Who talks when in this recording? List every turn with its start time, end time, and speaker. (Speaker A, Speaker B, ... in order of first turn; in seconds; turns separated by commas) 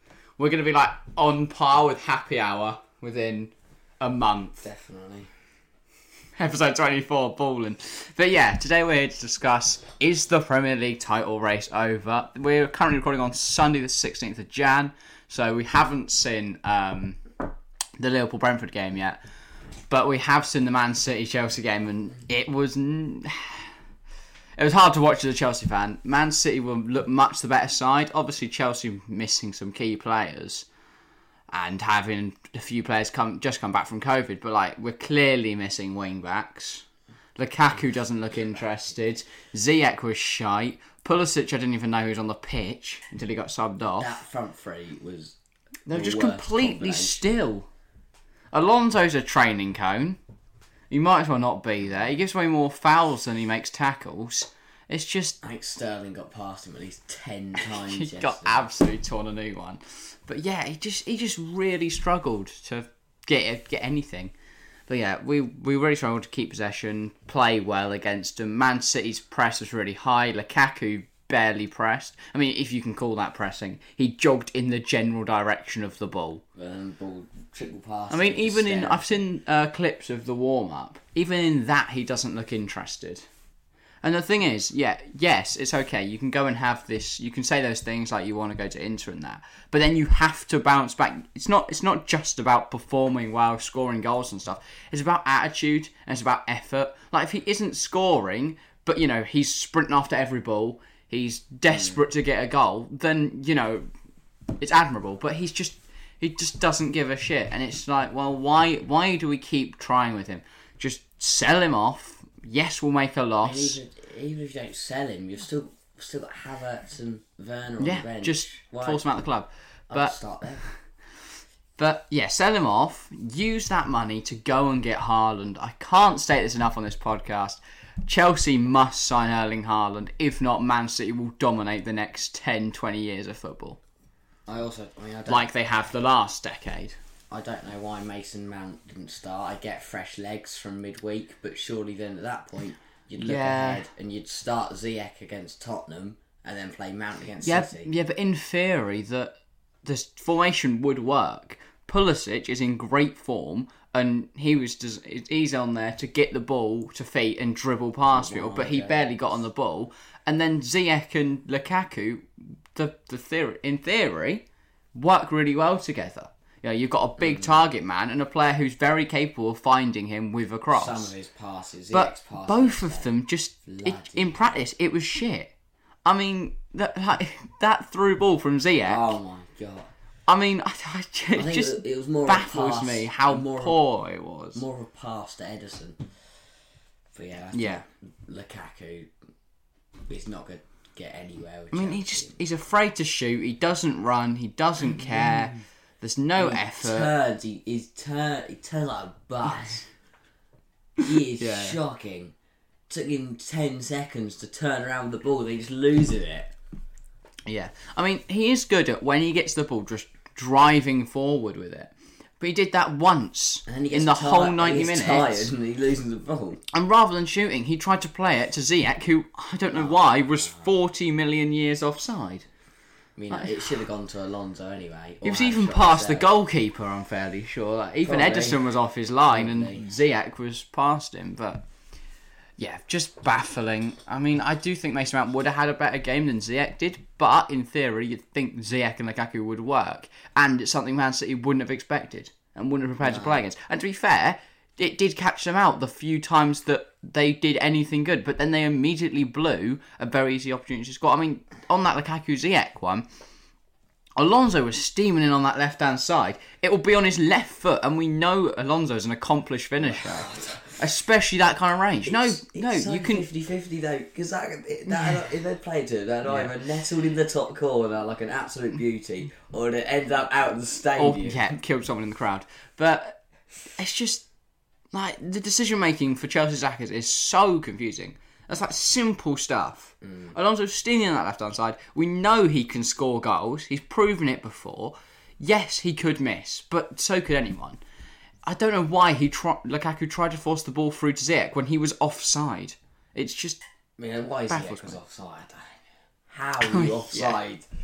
Speaker A: 0.4-4.7, Speaker B: 4.6-5.3, Speaker A: 6.4-17.2, Speaker A: 18.0-19.2, Speaker A: 19.9-23.7, Speaker A: 24.6-30.7, Speaker A: 31.5-36.9, Speaker A: 37.4-44.2, Speaker B: 44.0-45.4, Speaker A: 45.9-47.7, Speaker B: 45.9-47.2, Speaker A: 48.5-50.2, Speaker A: 50.9-55.4, Speaker B: 55.4-58.7, Speaker A: 57.6-64.3, Speaker A: 64.9-76.4, Speaker B: 76.6-79.2, Speaker A: 78.1-83.2, Speaker A: 84.0-103.9, Speaker A: 104.6-113.8, Speaker B: 113.4-119.0, Speaker A: 117.8-120.7, Speaker B: 119.9-120.7, Speaker A: 121.8-133.8, Speaker B: 134.5-135.5, Speaker A: 135.3-137.0, Speaker B: 137.3-147.9, Speaker A: 143.2-143.9, Speaker A: 147.4-149.3, Speaker A: 149.8-171.1, Speaker B: 158.1-159.4, Speaker B: 167.2-167.6, Speaker B: 170.7-173.1, Speaker A: 171.9-175.5, Speaker B: 173.7-174.6, Speaker A: 176.1-179.1, Speaker B: 178.8-179.9, Speaker A: 180.3-184.7, Speaker B: 181.3-183.8, Speaker B: 184.6-186.0, Speaker B: 187.1-189.1, Speaker A: 187.5-187.8, Speaker B: 190.1-192.4, Speaker A: 191.7-197.1, Speaker B: 194.9-195.5, Speaker B: 196.4-199.9, Speaker B: 201.0-202.3, Speaker A: 201.4-201.8, Speaker B: 202.9-206.5, Speaker A: 207.5-215.5, Speaker B: 213.7-216.6, Speaker A: 216.7-222.4, Speaker B: 219.7-220.7, Speaker B: 223.2-226.3, Speaker A: 223.3-223.8, Speaker A: 225.2-231.6, Speaker B: 228.0-228.6, Speaker B: 229.3-229.9, Speaker A: 232.6-253.1, Speaker B: 243.0-243.4, Speaker A: 254.2-263.3, Speaker B: 259.8-260.8, Speaker B: 262.1-271.4, Speaker A: 264.9-265.2, Speaker A: 266.2-266.5, Speaker A: 271.0-273.2, Speaker A: 273.8-274.3, Speaker A: 274.9-287.8, Speaker B: 280.1-280.3, Speaker A: 288.4-293.6, Speaker B: 294.0-295.8, Speaker A: 294.5-295.0, Speaker B: 296.3-297.6, Speaker A: 296.6-297.4